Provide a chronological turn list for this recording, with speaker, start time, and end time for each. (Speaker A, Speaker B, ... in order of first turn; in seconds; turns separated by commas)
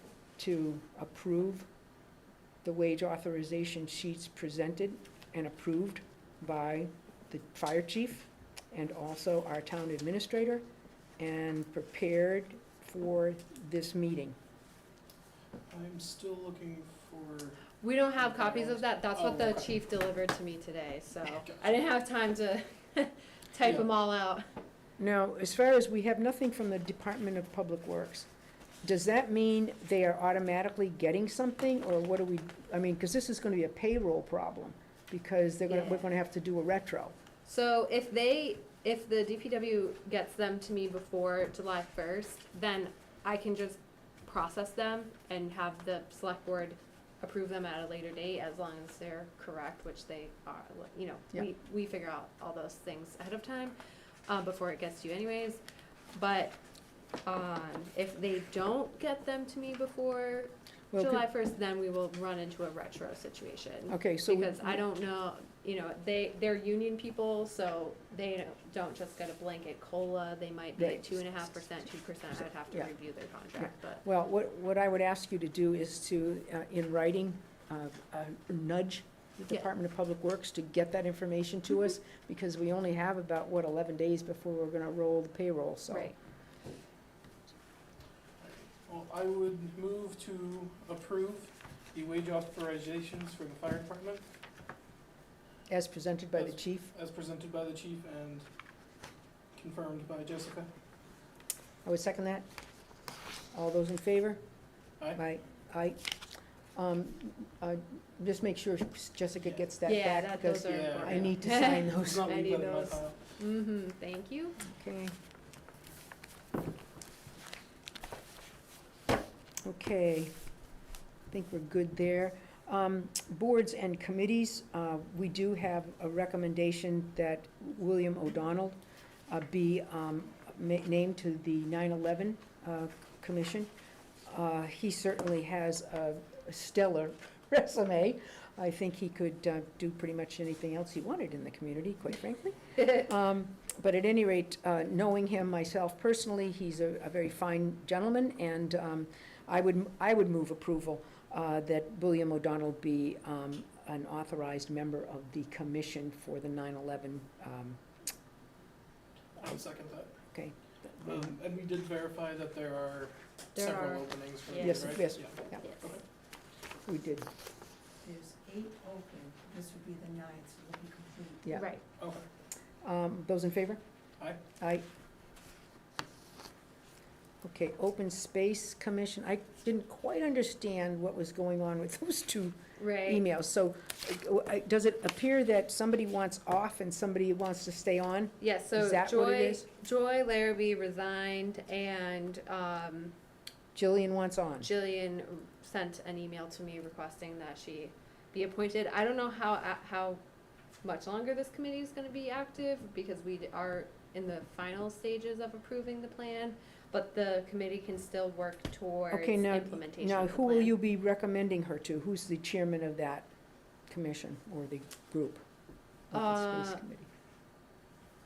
Speaker A: 0.4-1.7, Speaker A: 2.6-10.6, Speaker A: 11.2-14.4, Speaker B: 15.7-19.7, Speaker C: 17.8-24.4, Speaker A: 25.0-28.3, Speaker A: 28.8-37.1, Speaker C: 35.7-36.1, Speaker C: 37.5-53.7, Speaker C: 54.3-55.6, Speaker C: 56.1-56.6, Speaker C: 57.2-74.0, Speaker A: 60.9-61.2, Speaker A: 63.9-64.8, Speaker A: 70.8-71.6, Speaker A: 73.6-86.1, Speaker C: 85.9-86.1, Speaker B: 88.4-94.3, Speaker A: 95.7-96.9, Speaker B: 96.3-98.5, Speaker B: 99.5-100.7, Speaker A: 101.8-102.5, Speaker A: 103.5-104.4, Speaker A: 105.1-106.1, Speaker A: 106.7-112.3, Speaker C: 109.8-114.5, Speaker B: 110.7-113.2, Speaker A: 114.6-115.1, Speaker A: 119.6-120.3, Speaker A: 121.3-133.7, Speaker A: 134.2-157.8, Speaker B: 159.4-160.1, Speaker A: 160.3-161.3, Speaker B: 161.0-166.0, Speaker C: 163.6-164.9, Speaker A: 164.6-165.7, Speaker C: 165.6-165.9, Speaker A: 166.8-167.3, Speaker D: 168.0-171.4, Speaker A: 171.4-171.7, Speaker C: 171.5-171.8, Speaker B: 172.0-172.3, Speaker A: 172.8-173.8, Speaker A: 174.6-174.8, Speaker A: 177.4-189.7, Speaker C: 182.8-183.2, Speaker C: 188.4-193.1, Speaker A: 193.7-194.7, Speaker C: 194.6-200.2, Speaker C: 200.8-210.7, Speaker A: 209.1-213.3, Speaker A: 213.9-215.4, Speaker A: 216.1-217.1, Speaker C: 216.1-216.8